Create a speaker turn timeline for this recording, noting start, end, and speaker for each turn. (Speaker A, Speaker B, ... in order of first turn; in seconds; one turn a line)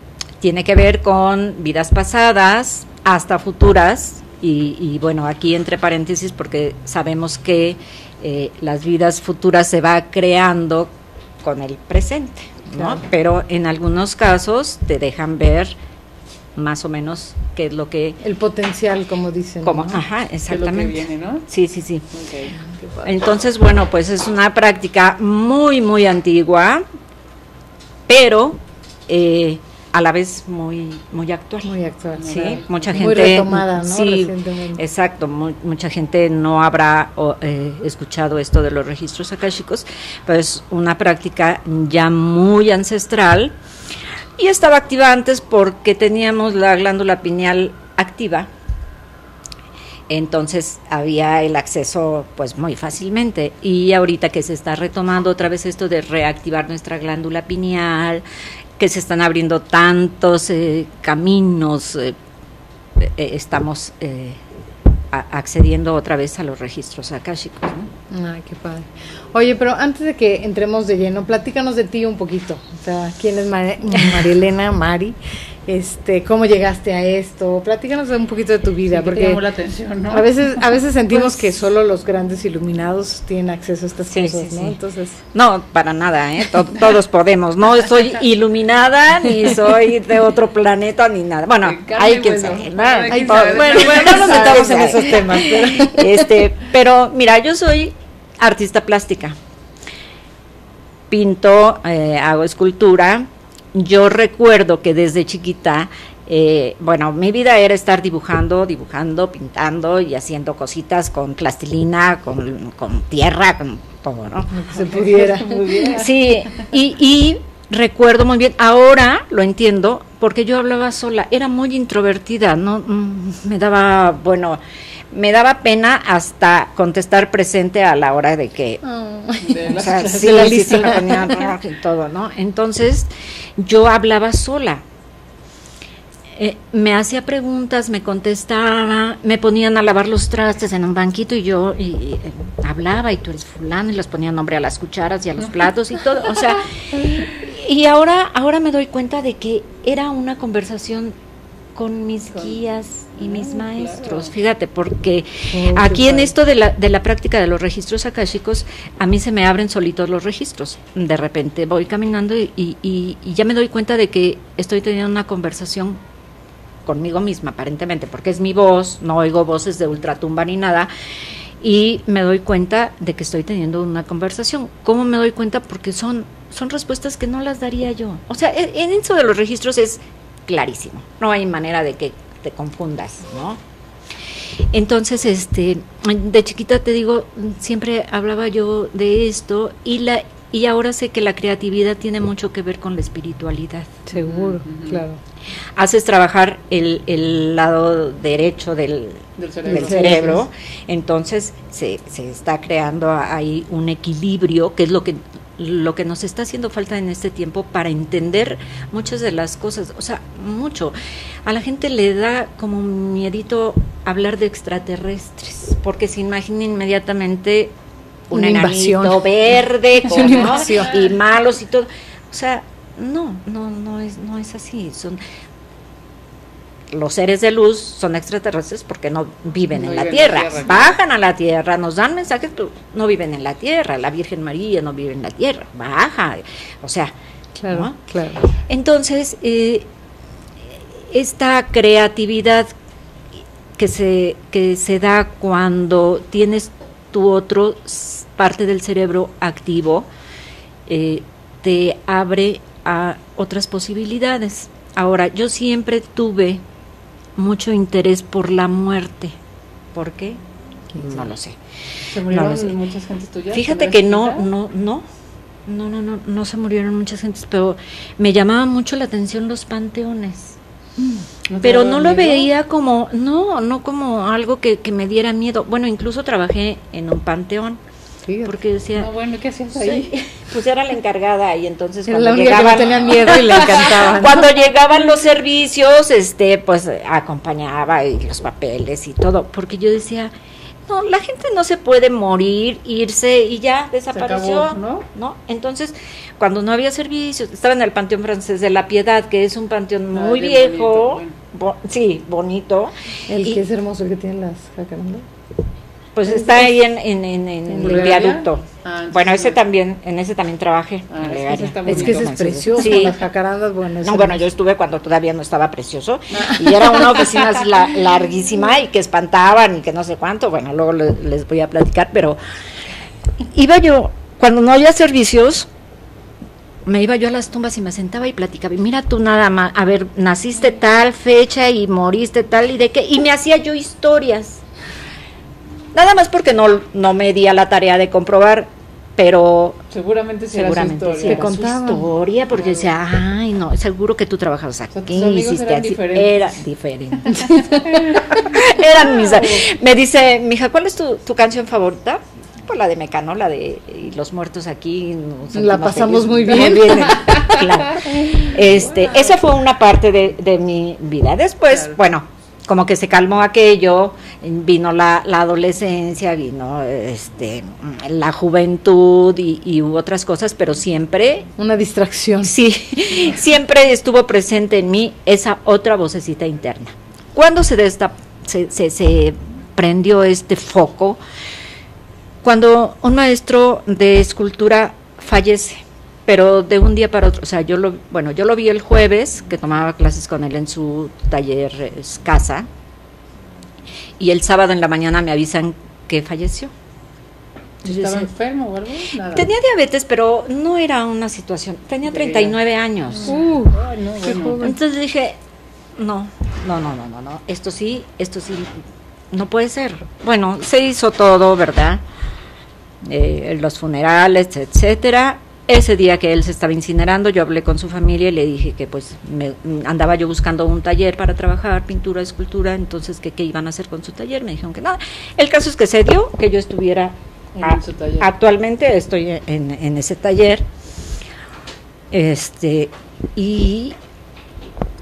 Speaker A: 0.4-10.9
Speaker A: 11.4-15.8
Speaker B: 12.8-13.0
Speaker A: 16.6-18.2
Speaker B: 18.2-20.0
Speaker A: 19.6-22.1
Speaker C: 20.5-21.4
Speaker C: 22.1-22.6
Speaker B: 22.5-23.2
Speaker A: 23.0-26.8
Speaker A: 28.1-31.7
Speaker B: 31.6-32.4
Speaker C: 32.1-33.0
Speaker A: 32.2-43.5
Speaker B: 32.9-34.8
Speaker A: 44.4-48.5
Speaker A: 50.1-58.2
Speaker A: 58.8-62.1
Speaker A: 63.0-64.4
Speaker A: 65.1-67.9
Speaker B: 68.1-79.4
Speaker C: 78.8-80.3
Speaker B: 80.1-85.2
Speaker A: 84.0-84.8
Speaker A: 85.3-99.3
Speaker C: 91.6-95.5
Speaker B: 93.1-96.1
Speaker A: 101.1-114.5
Speaker B: 114.5-115.8
Speaker C: 114.7-116.7
Speaker A: 115.8-124.6
Speaker A: 125.1-128.8
Speaker B: 128.8-131.4
Speaker C: 129.4-130.9
Speaker A: 129.7-134.8
Speaker A: 136.3-151.1
Speaker A: 151.7-166.0
Speaker C: 152.3-152.6
Speaker C: 153.2-154.3
Speaker B: 155.5-156.3
Speaker A: 166.8-170.9
Speaker A: 171.6-183.6
Speaker A: 184.7-194.0
Speaker B: 194.1-195.2
Speaker C: 194.2-195.0
Speaker A: 195.8-210.9
Speaker C: 199.4-200.2
Speaker B: 199.7-200.4
Speaker A: 211.4-217.7
Speaker A: 218.3-225.2
Speaker B: 218.3-219.3
Speaker B: 219.9-221.0
Speaker C: 220.1-220.8
Speaker A: 226.9-237.1
Speaker C: 229.7-230.9
Speaker B: 237.5-238.5
Speaker A: 237.7-237.9
Speaker A: 238.7-239.9
Speaker A: 241.1-242.7
Speaker A: 243.8-250.1
Speaker A: 250.9-256.6
Speaker A: 257.4-259.4
Speaker A: 259.9-260.4
Speaker B: 260.9-261.2
Speaker A: 260.9-261.6
Speaker C: 262.1-264.5
Speaker A: 262.2-262.8
Speaker A: 263.5-265.1
Speaker A: 265.7-270.6
Speaker C: 271.5-272.5
Speaker A: 271.6-277.8
Speaker B: 278.2-278.6
Speaker A: 278.4-279.1
Speaker C: 278.9-280.1
Speaker A: 279.7-290.3
Speaker B: 282.1-284.5
Speaker A: 290.9-303.6
Speaker C: 294.1-295.1
Speaker C: 300.1-301.4
Speaker B: 303.3-305.2
Speaker A: 306.1-313.2
Speaker B: 306.3-306.7
Speaker B: 307.7-308.3
Speaker C: 307.8-309.6
Speaker C: 311.1-312.3
Speaker B: 311.8-314.5
Speaker A: 314.0-322.4
Speaker A: 323.5-325.7
Speaker A: 326.9-334.6
Speaker A: 335.9-339.8
Speaker C: 339.9-341.5
Speaker A: 340.5-371.5
Speaker B: 341.2-342.1
Speaker C: 342.5-342.9
Speaker C: 344.9-346.6
Speaker B: 347.4-347.7
Speaker C: 347.6-348.4
Speaker C: 349.1-349.7
Speaker B: 355.5-357.5
Speaker C: 357.1-359.4
Speaker C: 361.7-362.0
Speaker B: 371.6-372.5
Speaker A: 372.4-381.2
Speaker A: 382.4-392.7
Speaker A: 394.2-396.7
Speaker C: 397.8-399.5
Speaker A: 397.9-398.3
Speaker A: 399.3-403.3
Speaker C: 402.0-402.6
Speaker C: 403.2-404.7
Speaker B: 403.2-404.7
Speaker A: 404.6-405.4
Speaker A: 406.0-408.7
Speaker A: 409.3-412.0
Speaker A: 413.1-430.6
Speaker C: 427.5-428.3
Speaker A: 432.1-433.9